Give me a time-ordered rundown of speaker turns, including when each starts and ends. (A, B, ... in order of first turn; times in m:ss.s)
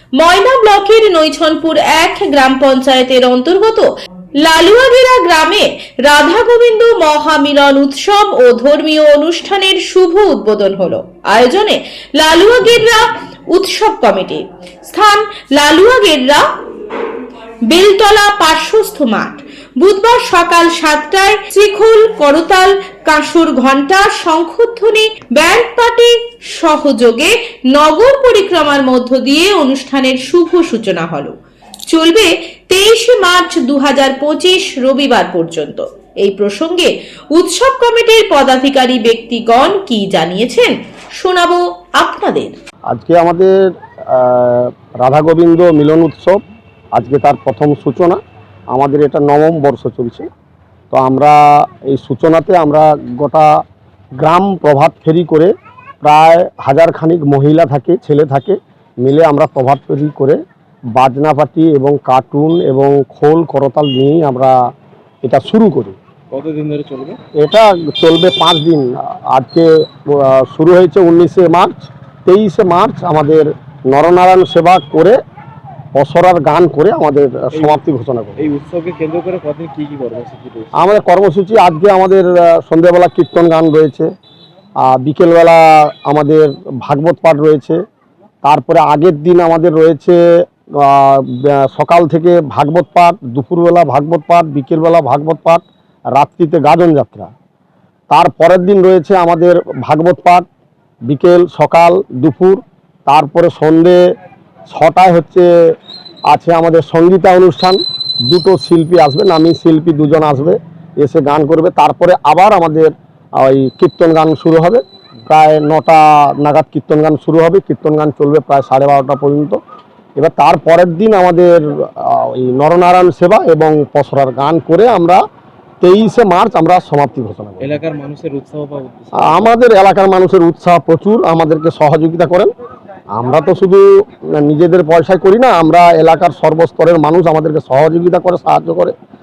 0:00.2-0:03.9 A
0:04.4-0:16.5 A
0:17.7-0:31.4 A
0:31.9-0:42.5 A
0:42.9-0:43.6 B
0:44.1-0:46.4 B
0:47.0-0:48.2 B
0:48.7-0:50.3 B
0:50.9-0:53.5 B
0:54.2-0:55.5 B
0:56.0-1:00.4 B
1:01.0-1:04.6 B
1:05.2-1:06.0 B
1:06.3-1:07.2 C
1:07.4-1:15.2 B
1:16.0-1:18.4 B
1:17.5-1:17.8 C
1:18.4-1:20.8 C
1:20.8-1:24.1 B
1:24.8-1:27.8 B
1:28.4-1:30.2 B
1:30.8-1:35.6 B
1:36.2-1:37.3 B
1:38.1-1:40.4 B
1:41.1-1:44.0 B
1:44.7-1:45.5 B
1:46.3-1:59.6 B
2:00.2-2:05.2 B
2:05.8-2:07.7 B
2:07.6-2:09.5 C
2:09.2-2:12.5 B
2:13.2-2:13.8 B
2:14.4-2:18.9 B